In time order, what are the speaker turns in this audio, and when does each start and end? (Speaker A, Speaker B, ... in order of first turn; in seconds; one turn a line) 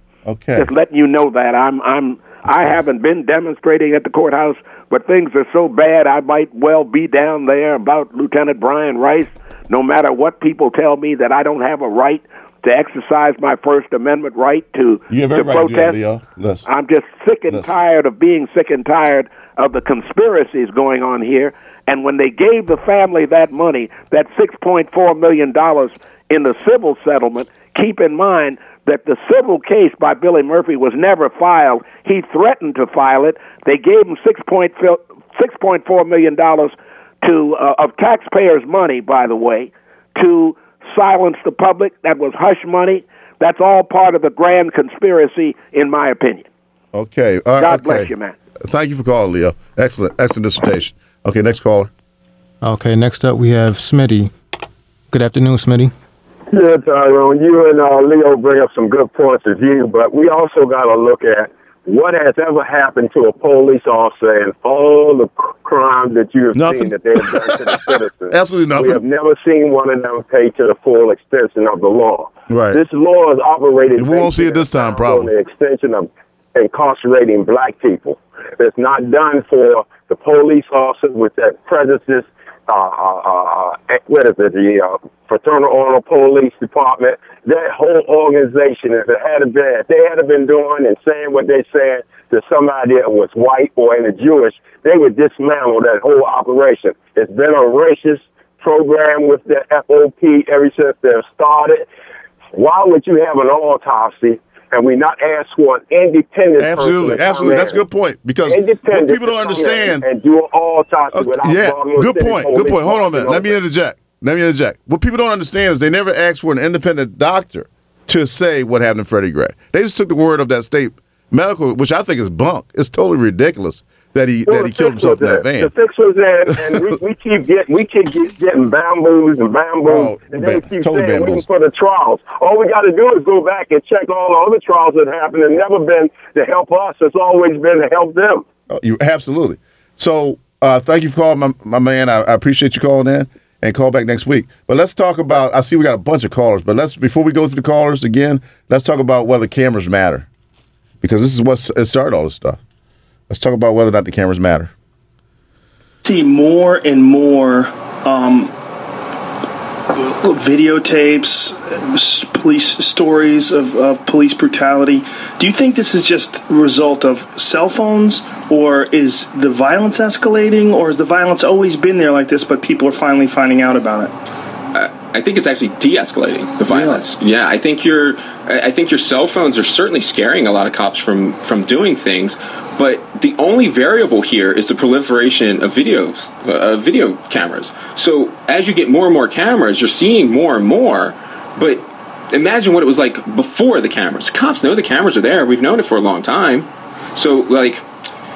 Speaker A: 0.2-0.7
Speaker B: 0.6-16.0
Speaker A: 15.1-16.6
Speaker B: 16.6-46.5
Speaker A: 46.9-51.9
Speaker B: 47.6-48.3
Speaker C: 52.6-54.3
Speaker C: 55.1-55.9
Speaker D: 56.5-101.8
Speaker A: 66.5-69.0
Speaker A: 72.5-72.8
Speaker A: 73.9-75.3
Speaker D: 102.5-107.8
Speaker A: 106.6-110.0
Speaker D: 108.5-113.6
Speaker A: 111.1-125.7
Speaker D: 124.5-138.4
Speaker A: 126.6-126.8
Speaker A: 129.9-131.4
Speaker A: 138.7-150.3
Speaker A: 151.0-152.6
Speaker A: 153.3-154.7
Speaker E: 156.0-158.5
Speaker E: 159.9-174.1
Speaker F: 174.7-197.8
Speaker E: 176.7-177.0